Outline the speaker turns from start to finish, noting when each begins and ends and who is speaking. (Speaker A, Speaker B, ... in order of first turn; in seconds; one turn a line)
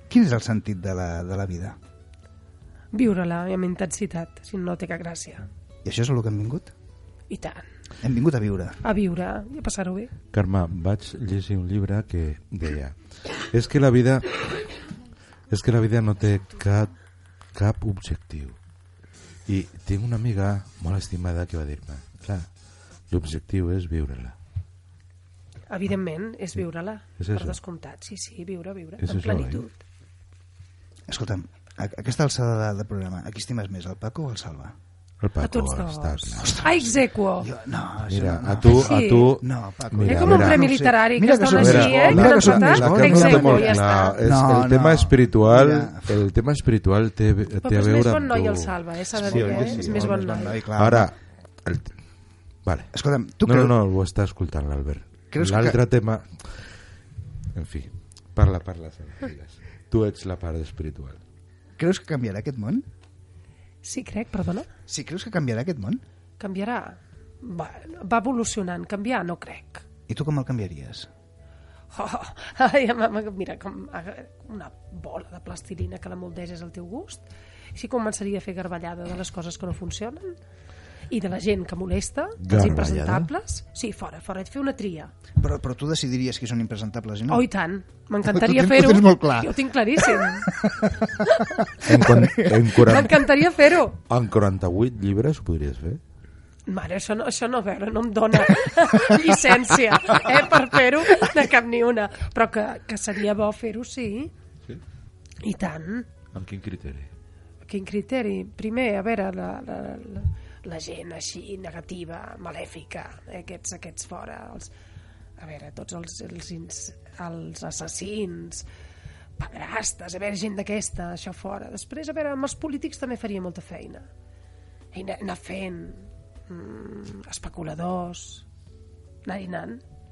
Speaker A: 0.1-1.8
Speaker B: 2.9-5.5
Speaker A: 5.8-6.7
Speaker B: 7.3-7.7
Speaker A: 8.0-8.8
Speaker B: 8.8-10.1
Speaker C: 10.3-14.4
Speaker C: 15.5-16.9
Speaker C: 17.5-18.6
Speaker C: 19.5-22.5
Speaker C: 23.1-24.4
Speaker B: 25.7-29.8
Speaker C: 27.2-27.6
Speaker C: 29.0-29.6
Speaker A: 31.1-34.8
Speaker C: 35.2-36.7
Speaker B: 35.4-37.5
Speaker A: 36.4-36.9
Speaker A: 37.4-46.2
Speaker C: 38.1-40.7
Speaker B: 38.7-39.4
Speaker B: 40.1-44.2
Speaker C: 41.5-50.1
Speaker B: 47.6-50.6
Speaker A: 49.2-51.1
Speaker C: 50.8-52.0
Speaker C: 52.6-52.9
Speaker A: 52.9-53.8
Speaker C: 53.4-56.7
Speaker A: 55.3-55.8
Speaker C: 57.5-61.2
Speaker A: 61.8-62.9
Speaker B: 63.8-64.7
Speaker A: 64.9-66.0
Speaker B: 66.4-69.8
Speaker A: 70.1-71.1
Speaker B: 71.9-80.4
Speaker B: 81.1-85.1
Speaker C: 82.4-83.3
Speaker A: 85.4-87.5
Speaker B: 87.3-90.5
Speaker A: 88.2-92.8
Speaker C: 91.8-93.3
Speaker B: 92.7-94.0
Speaker C: 94.1-96.0
Speaker B: 96.7-104.3
Speaker B: 105.4-106.1
Speaker C: 106.3-107.1
Speaker B: 107.7-114.7
Speaker B: 115.4-118.7
Speaker B: 119.4-124.1
Speaker B: 124.9-128.5
Speaker B: 129.2-129.8